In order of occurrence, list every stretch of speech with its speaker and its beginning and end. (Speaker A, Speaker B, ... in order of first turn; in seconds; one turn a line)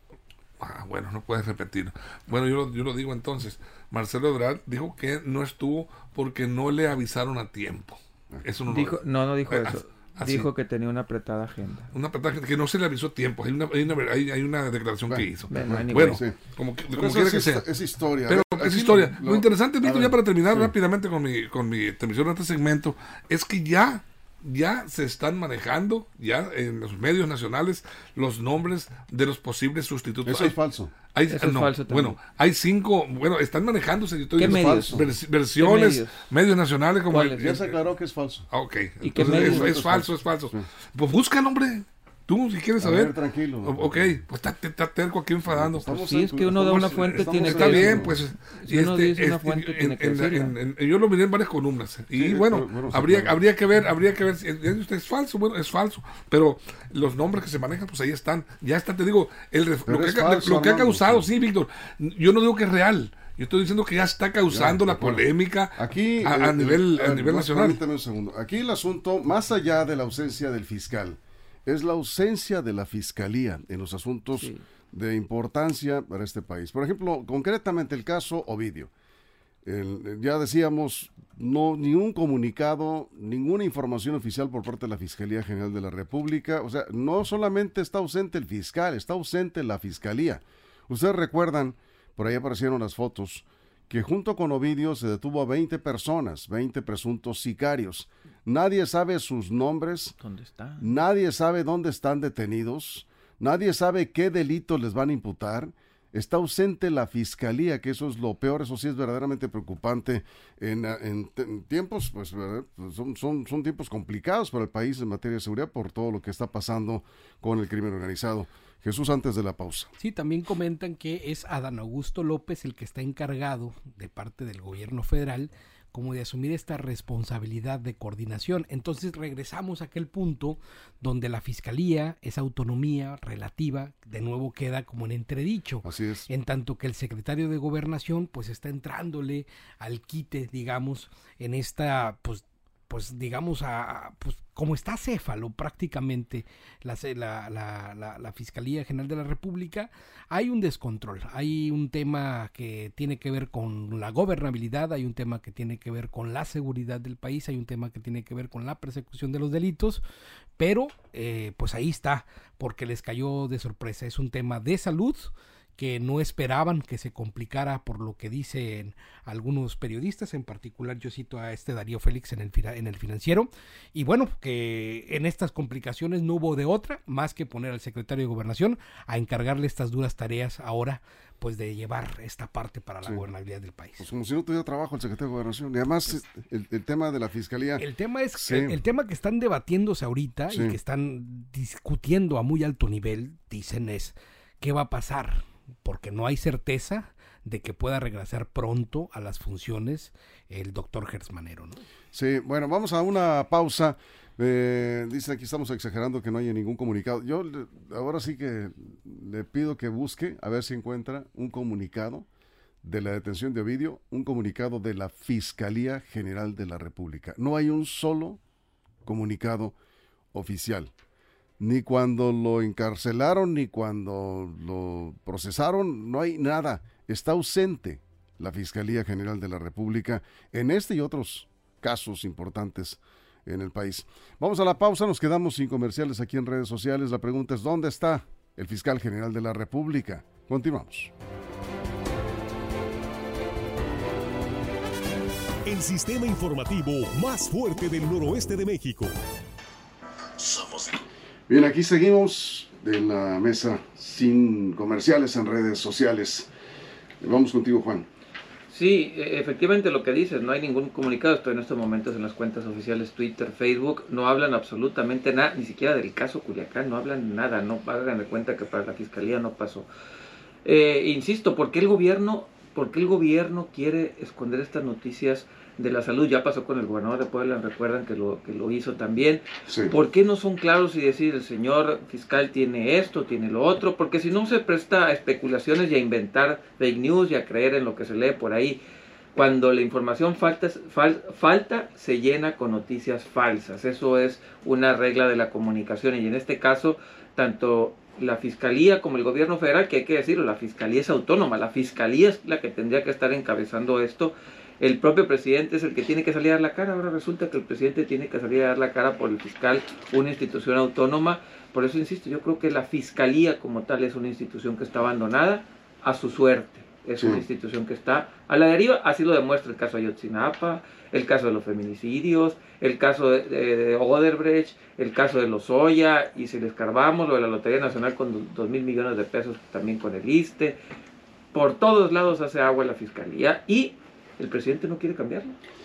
Speaker A: 0.6-10.5
Speaker B: 8.7-11.9
Speaker A: 11.9-17.6
Speaker C: 15.1-16.4
Speaker B: 15.5-16.2
Speaker C: 16.9-20.7
Speaker A: 18.3-30.6
Speaker C: 30.2-30.9
Speaker A: 31.1-37.7
Speaker B: 31.3-32.2
Speaker C: 34.3-35.1
Speaker B: 34.4-35.0
Speaker B: 35.6-36.2
Speaker B: 37.1-37.6
Speaker C: 37.4-38.5
Speaker A: 38.5-45.9
Speaker B: 39.0-39.9
Speaker C: 39.1-40.7
Speaker C: 42.8-44.2
Speaker C: 45.5-48.2
Speaker B: 45.9-50.5
Speaker A: 46.5-67.8
Speaker C: 52.1-53.4
Speaker C: 59.9-61.3
Speaker C: 64.5-65.2
Speaker C: 65.8-78.9
Speaker B: 74.4-74.6
Speaker C: 79.6-100.1
Speaker B: 100.2-100.9
Speaker C: 100.8-119.9
Speaker D: 120.0-160.0
Speaker C: 135.8-136.3
Speaker D: 160.6-184.1
Speaker C: 184.0-188.8
Speaker D: 187.8-201.8
Speaker C: 190.5-190.8
Speaker C: 202.1-212.3
Speaker C: 212.8-218.4
Speaker C: 219.0-219.8
Speaker C: 220.3-220.9
Speaker C: 221.6-241.1
Speaker E: 245.6-249.2
Speaker C: 251.5-256.5
Speaker C: 257.2-258.1
Speaker B: 258.7-269.9
Speaker B: 270.6-288.8
Speaker C: 279.7-279.9
Speaker B: 289.3-330.8
Speaker C: 317.2-317.4
Speaker B: 331.5-335.6